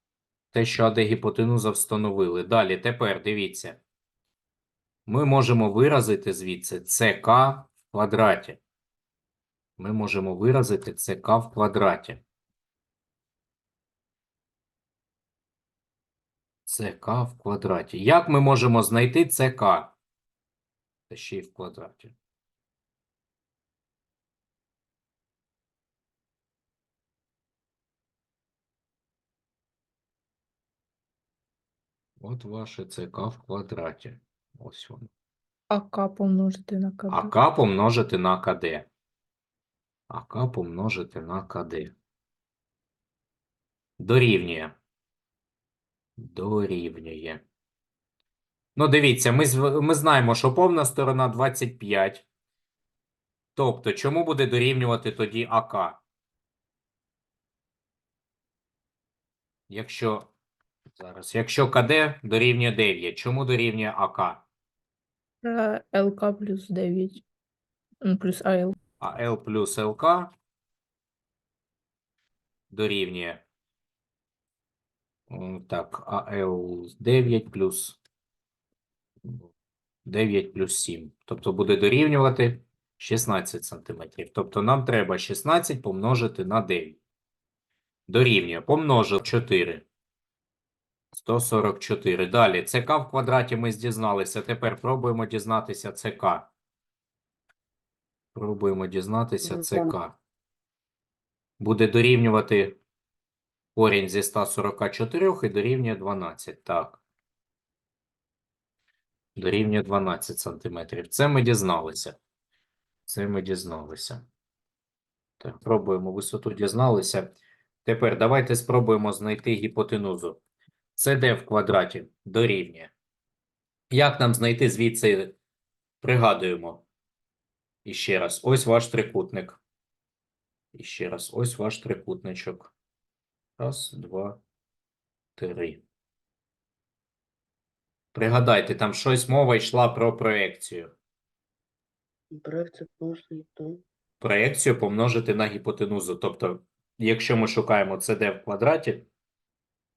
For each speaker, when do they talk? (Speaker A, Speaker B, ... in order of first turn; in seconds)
Speaker A: 0.5-3.8, 5.0-8.6, 9.8-12.2, 16.6-19.9, 21.1-22.1, 32.2-35.1, 37.1-38.9, 40.1-41.9, 44.0-44.8, 46.2-47.4, 48.8-52.2, 53.5-56.0, 59.7-60.3, 60.9-64.4, 69.0-70.3, 72.7-73.4, 75.3-78.0, 79.2-79.5, 80.0-87.0, 88.1-89.8, 91.1-96.5, 98.3-100.2, 101.6-102.8, 103.7-107.0, 109.3-112.2, 113.0-114.2, 115.4-120.4, 120.9-122.9, 123.9-125.3, 126.0-126.8, 127.8-129.6, 130.7-132.7, 133.6-134.4, 135.3-135.8, 138.1-140.9, 144.2-149.1
Speaker B: 35.7-37.3, 65.4-67.2, 68.0-68.8
Speaker C: 99.4-99.9, 142.3-143.8